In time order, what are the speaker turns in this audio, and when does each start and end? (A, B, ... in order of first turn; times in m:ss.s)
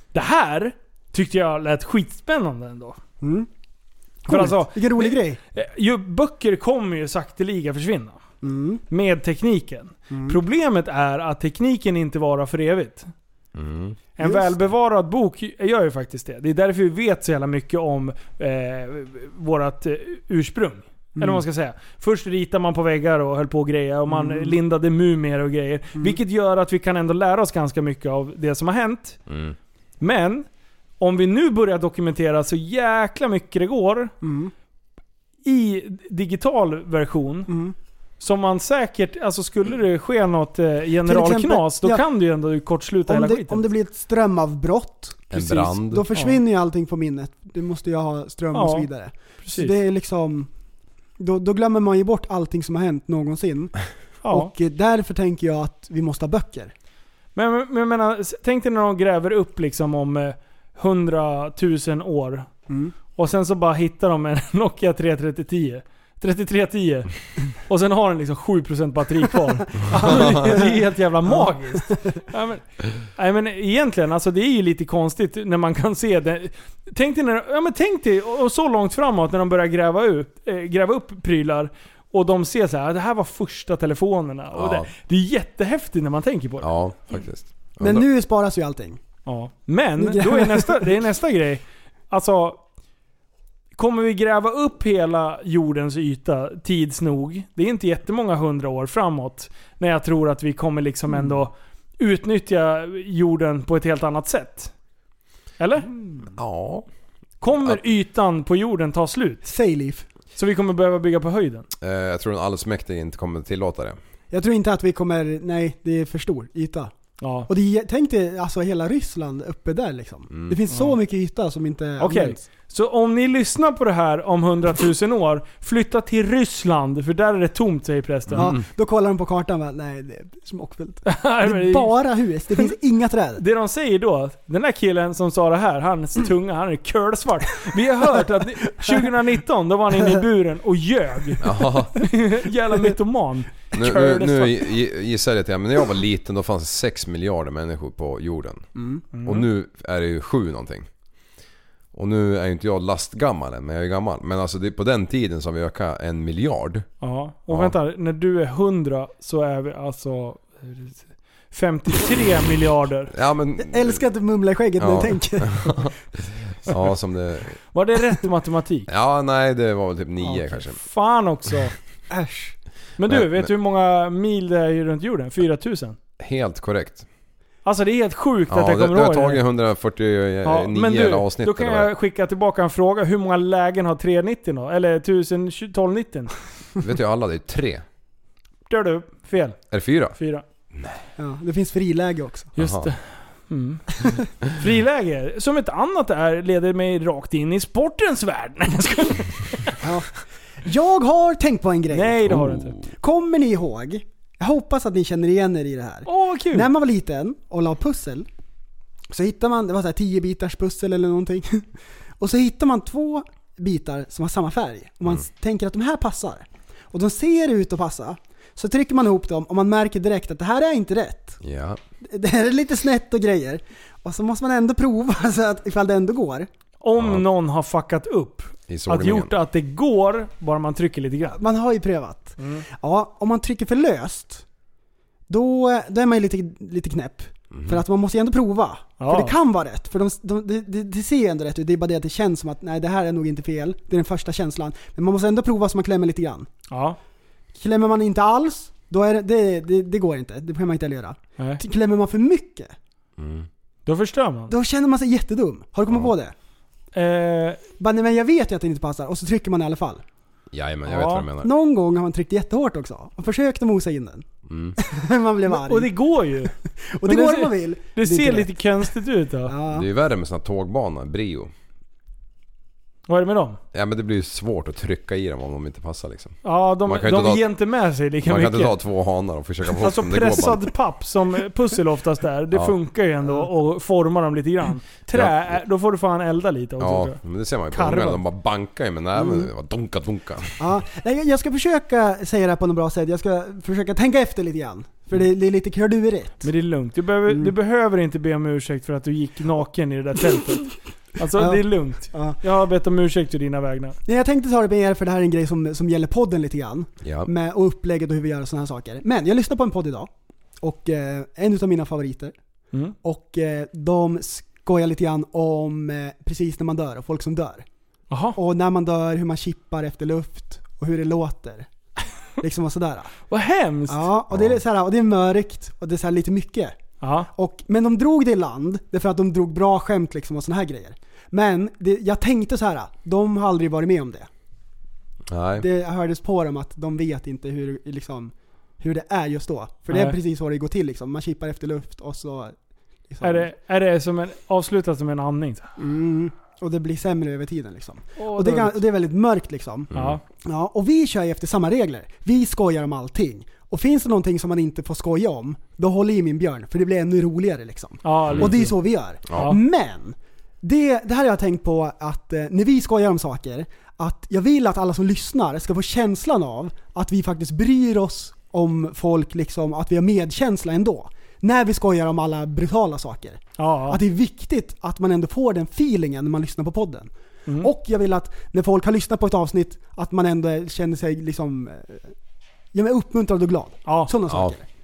0:00.1-0:03.0 A
0:03.2-0:03.5 B
0:04.2-0:05.4 B
0:04.3-0:08.2 A
0:08.4-0:08.8 B
0:08.9-0:13.1 A
0:10.1-0:10.4 B
0:13.5-0:14.0 C
0:14.2-0:29.2 A
0:14.2-0:14.5 B
0:21.2-0:21.4 B
0:24.1-0:24.5 B
0:29.3-0:29.6 C
0:30.0-0:30.5 A
0:31.0-0:34.1 A
0:34.2-0:34.5 B
0:35.4-0:37.5 A
0:37.5-0:37.7 B
0:38.2-0:43.6 A
0:41.0-0:42.0 B
0:43.0-0:50.5 B
0:45.3-0:46.1 C
0:48.5-0:48.9 A
0:49.4-0:49.7 A
0:51.2-0:53.8 B
0:54.2-0:54.5 A
0:54.3-0:56.7 B
0:57.3-1:02.5 A
1:02.7-1:02.9 B
1:03.2-1:26.7 A
1:09.9-1:10.7 B
1:11.2-1:12.2 B
1:24.5-1:24.9 C
1:26.6-1:28.0 C
1:27.8-1:29.0 B
1:29.2-1:32.6 A
1:30.0-1:30.9 B
1:33.7-1:44.7 A
1:45.6-1:45.9 A
1:46.3-1:46.8 C
1:47.4-1:49.4 A
1:47.5-1:47.8 C
1:49.4-1:50.1 B
1:50.3-1:51.7 A
1:51.8-1:54.0 C
1:54.3-1:56.9 B
1:57.2-1:57.5 A
1:57.5-2:02.4 B
2:00.3-2:00.6 C
2:02.0-2:08.5 A
2:08.3-2:13.4 B
2:11.0-2:11.9 A
2:13.4-2:24.6 A
2:18.8-2:19.0 B
2:21.4-2:22.0 C
2:23.7-2:28.7 C
2:28.7-2:29.0 B
2:29.1-2:29.4 A
2:29.2-2:30.9 C
2:31.9-2:36.9 C
2:37.0-2:43.1 A
2:37.5-2:37.7 C
2:43.1-2:44.0 C
2:43.6-2:45.9 B
2:44.8-2:45.9 C
2:46.6-2:47.6 C
2:47.7-2:48.9 A
2:48.9-2:50.8 C
2:50.2-2:51.7 A
2:52.1-2:52.5 B
2:53.0-2:56.0 A
2:53.1-2:53.5 C
2:56.2-2:57.0 C
2:57.6-2:59.4 A
2:58.5-3:01.9 C
3:00.4-3:06.3 A
3:06.8-3:07.8 C
3:08.7-3:09.6 A
3:09.7-3:10.2 C
3:10.1-3:10.4 A
3:10.7-3:11.0 C
3:11.2-3:12.5 B
3:12.6-3:19.7 A
3:12.6-3:12.9 C
3:19.8-3:20.1 B
3:20.6-3:22.4 B
3:21.9-3:22.8 A
3:22.3-3:22.8 C
3:23.0-3:28.3 B
3:26.0-3:26.7 A
3:29.1-3:31.7 B
3:32.2-3:41.4 B
3:41.4-3:41.8 C
3:42.0-3:46.5 B
3:46.8-3:51.4 A
3:47.0-3:47.2 C
3:48.7-3:49.3 C
3:51.4-3:54.4 B
3:52.4-3:52.6 A
3:55.3-4:06.5 B
3:57.5-3:57.8 C
3:59.0-3:59.3 A
4:06.7-4:07.0 A
4:07.5-4:12.7 B
4:13.2-4:13.5 C
4:13.8-4:14.5 A
4:14.5-4:16.3 B
4:16.9-4:17.6 A
4:17.8-4:20.0 B
4:20.5-4:21.5 C
4:20.9-4:21.2 A
4:21.4-4:24.2 B
4:24.5-4:24.8 C
4:24.8-4:25.9 B
4:25.5-4:26.5 A
4:26.8-4:28.8 B
4:27.0-4:29.5 A
4:29.4-4:29.9 B
4:29.7-4:31.5 C
4:33.1-4:33.6 A
4:33.7-4:37.5 C
4:36.4-4:38.7 A
4:38.2-4:40.7 C
4:39.8-4:47.2 A
4:45.1-4:45.6 C
4:46.8-4:50.6 C
4:47.7-4:48.2 A
4:49.2-4:49.5 B
4:50.6-4:56.5 B
4:56.4-5:04.0 A
4:57.3-4:57.5 B
5:01.3-5:02.4 B
5:04.0-5:10.1 B
5:07.0-5:07.3 C
5:10.6-5:12.3 B
5:13.0-5:17.6 B
5:18.1-5:18.4 A
5:18.3-5:21.7 B
5:22.4-5:23.1 B
5:23.3-5:24.1 A
5:23.9-5:26.8 B
5:27.0-5:27.3 A
5:27.3-5:34.3 B
5:35.3-5:35.6 C
5:35.6-5:42.6 B
5:39.9-5:40.2 A
5:43.1-5:43.5 B
5:43.2-5:45.7 A
5:45.8-6:22.1 B
5:48.2-5:48.8 A
5:49.9-5:50.2 C
5:58.0-5:58.8 A
5:59.3-5:59.6 A
6:13.6-6:14.0 A
6:22.7-6:24.6 B
6:23.8-6:24.1 A